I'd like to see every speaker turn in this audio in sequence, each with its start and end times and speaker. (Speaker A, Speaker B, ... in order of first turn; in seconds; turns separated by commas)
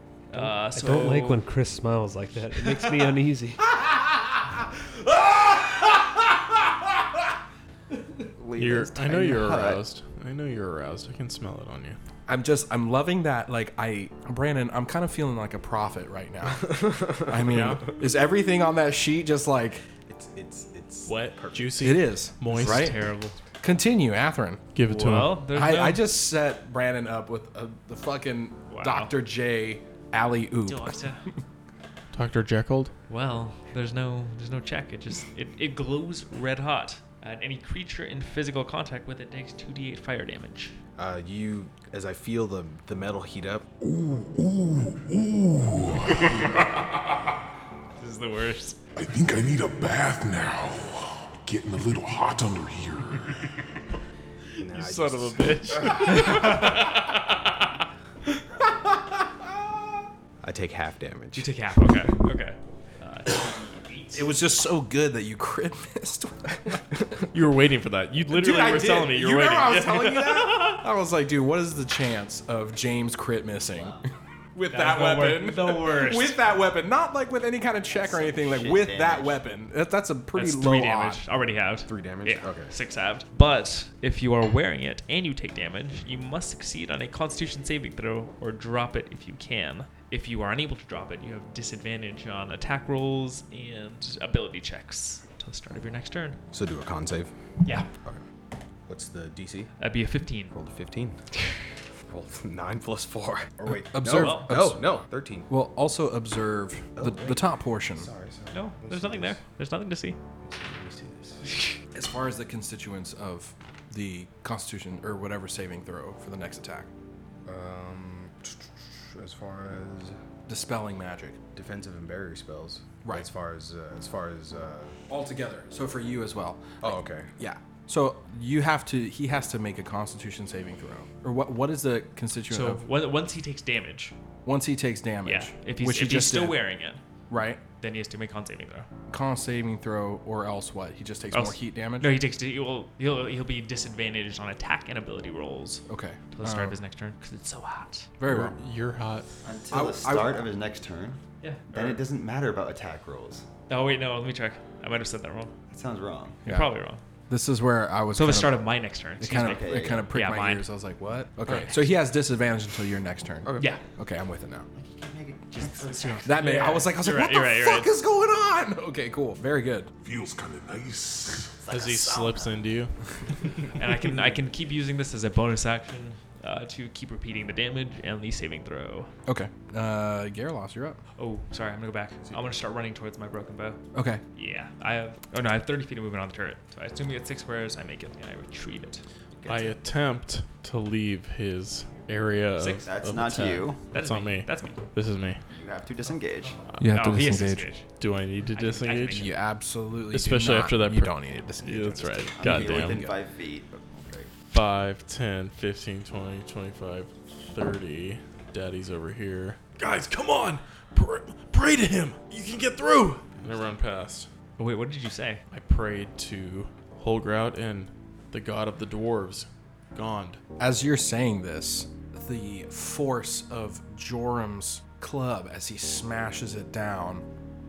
Speaker A: 0.3-1.4, Speaker B: 0.3-3.6, Speaker C: 4.8-5.7, Speaker D: 8.4-9.8, Speaker E: 8.6-12.0, Speaker C: 12.3-19.8, Speaker F: 16.7-17.3, Speaker E: 17.5-17.9, Speaker F: 20.1-21.8, Speaker E: 21.1-23.0, Speaker C: 21.8-23.0, Speaker A: 22.5-23.4, Speaker C: 23.6-24.6, Speaker E: 24.7-25.4, Speaker A: 24.9-26.1, Speaker C: 25.5-31.0, Speaker A: 28.7-29.1, Speaker A: 30.6-31.2, Speaker E: 32.1-32.9, Speaker A: 33.1-40.8, Speaker F: 41.0-43.7, Speaker G: 43.8-46.3, Speaker A: 48.0-48.8, Speaker G: 49.0-53.5, Speaker F: 54.6-55.8, Speaker E: 54.6-57.2, Speaker A: 56.0-56.8, Speaker F: 60.4-61.5, Speaker A: 61.3-64.3, Speaker C: 64.1-67.2, Speaker E: 67.3-70.7, Speaker C: 68.3-81.2, Speaker D: 73.7-74.0, Speaker A: 74.7-76.4, Speaker D: 77.9-79.4, Speaker A: 80.3-96.4, Speaker F: 81.9-82.7, Speaker F: 96.5-97.3, Speaker A: 97.6-97.9, Speaker F: 98.9-99.7, Speaker A: 99.8-100.5, Speaker F: 100.5-101.2, Speaker F: 102.1-105.5, Speaker C: 103.9-108.1, Speaker A: 104.0-104.5, Speaker F: 107.0-109.4, Speaker A: 108.5-110.2, Speaker F: 110.4-111.4, Speaker C: 111.9-116.9, Speaker F: 117.5-120.2, Speaker C: 120.5-121.4, Speaker F: 121.5-124.9, Speaker C: 123.0-123.3, Speaker C: 125.1-132.8, Speaker F: 126.8-127.3, Speaker A: 132.5-134.1, Speaker C: 134.4-136.6, Speaker A: 135.2-137.0, Speaker C: 137.3-137.6, Speaker A: 137.8-138.9, Speaker C: 139.1-142.2, Speaker A: 141.3-148.1, Speaker C: 145.9-146.8, Speaker C: 148.2-148.6, Speaker E: 148.3-149.3, Speaker D: 149.4-151.2, Speaker C: 149.7-150.4, Speaker A: 151.4-152.0, Speaker D: 151.7-153.4, Speaker A: 153.7-155.5, Speaker D: 155.7-156.4, Speaker C: 156.4-156.7, Speaker A: 156.4-157.0, Speaker C: 157.3-164.7, Speaker A: 158.1-160.7, Speaker D: 159.4-160.1, Speaker A: 161.5-161.8, Speaker F: 163.4-163.7, Speaker A: 163.6-163.8, Speaker D: 164.7-166.6, Speaker A: 165.5-167.9, Speaker C: 166.2-169.9, Speaker G: 170.0-171.5, Speaker D: 171.6-172.7, Speaker E: 171.7-173.7, Speaker A: 173.8-179.1, Speaker C: 179.2-181.0, Speaker A: 181.2-183.8, Speaker C: 183.9-184.2, Speaker A: 184.3-189.0, Speaker D: 189.4-189.7, Speaker E: 189.4-195.4, Speaker D: 192.6-193.8, Speaker A: 193.9-194.8, Speaker D: 195.5-196.6, Speaker A: 196.4-197.9, Speaker C: 196.8-197.7, Speaker E: 198.0-199.3, Speaker A: 198.5-199.4, Speaker C: 199.1-203.1, Speaker E: 200.1-203.0, Speaker D: 202.4-204.3, Speaker E: 204.5-214.3, Speaker A: 214.6-215.4, Speaker E: 215.5-220.4, Speaker C: 220.6-227.2